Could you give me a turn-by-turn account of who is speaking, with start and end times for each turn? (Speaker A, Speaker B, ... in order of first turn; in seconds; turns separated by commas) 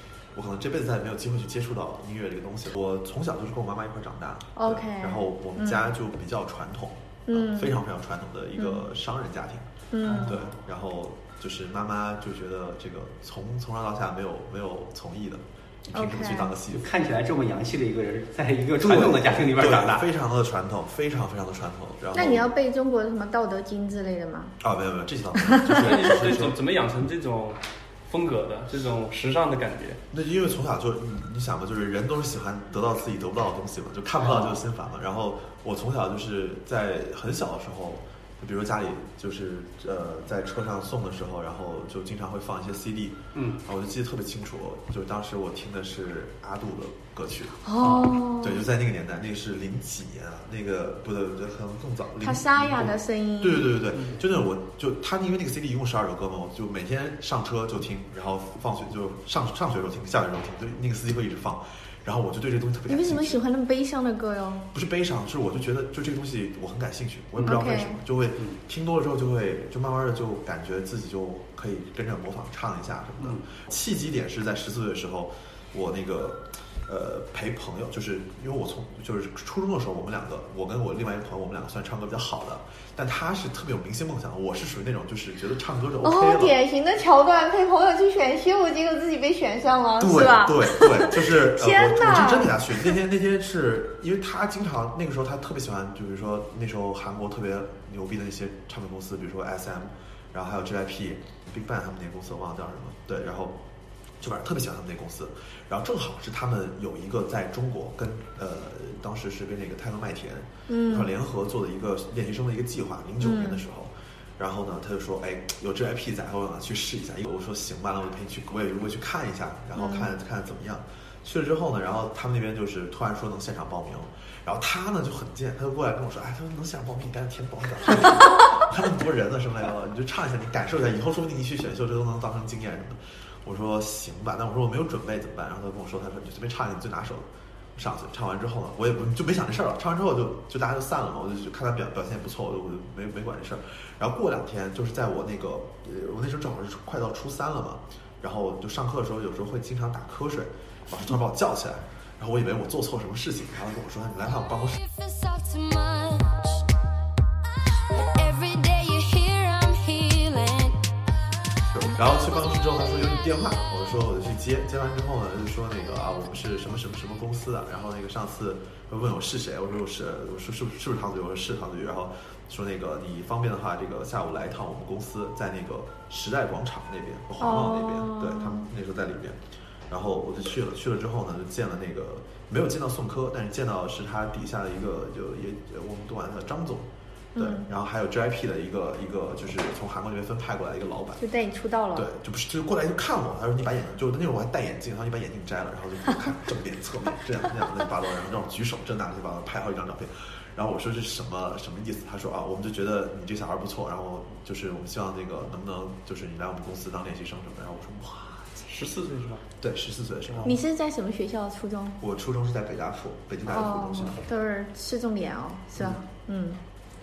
Speaker A: 0.3-16.8, Speaker B: 4.5-5.9, Speaker B: 7.3-7.8, Speaker B: 8.6-8.8, Speaker B: 9.9-10.4, Speaker C: 10.0-10.4, Speaker B: 15.9-16.5, Speaker C: 16.7-20.1, Speaker A: 18.8-22.5, Speaker B: 22.1-24.6, Speaker A: 24.6-26.6, Speaker B: 25.5-25.8, Speaker D: 25.7-30.0, Speaker A: 30.1-47.6, Speaker C: 34.2-34.6, Speaker C: 43.3-43.6, Speaker B: 47.6-48.6, Speaker C: 47.8-48.1, Speaker A: 48.4-63.4, Speaker B: 52.2-53.8, Speaker B: 62.9-64.7, Speaker A: 64.7-86.5, Speaker B: 67.4-68.0, Speaker B: 86.0-92.9, Speaker A: 90.0-103.6, Speaker A: 104.2-154.8, Speaker B: 110.7-111.1, Speaker B: 113.2-113.6, Speaker B: 119.7-120.1, Speaker E: 154.8-156.6, Speaker E: 157.6-160.9, Speaker A: 161.7-191.2, Speaker B: 177.4-178.6, Speaker B: 187.3-187.6, Speaker B: 191.2-192.1, Speaker A: 191.9-208.7, Speaker D: 208.7-209.4, Speaker A: 209.6-210.6, Speaker B: 210.4-212.0, Speaker A: 212.0-214.2, Speaker B: 213.5-216.6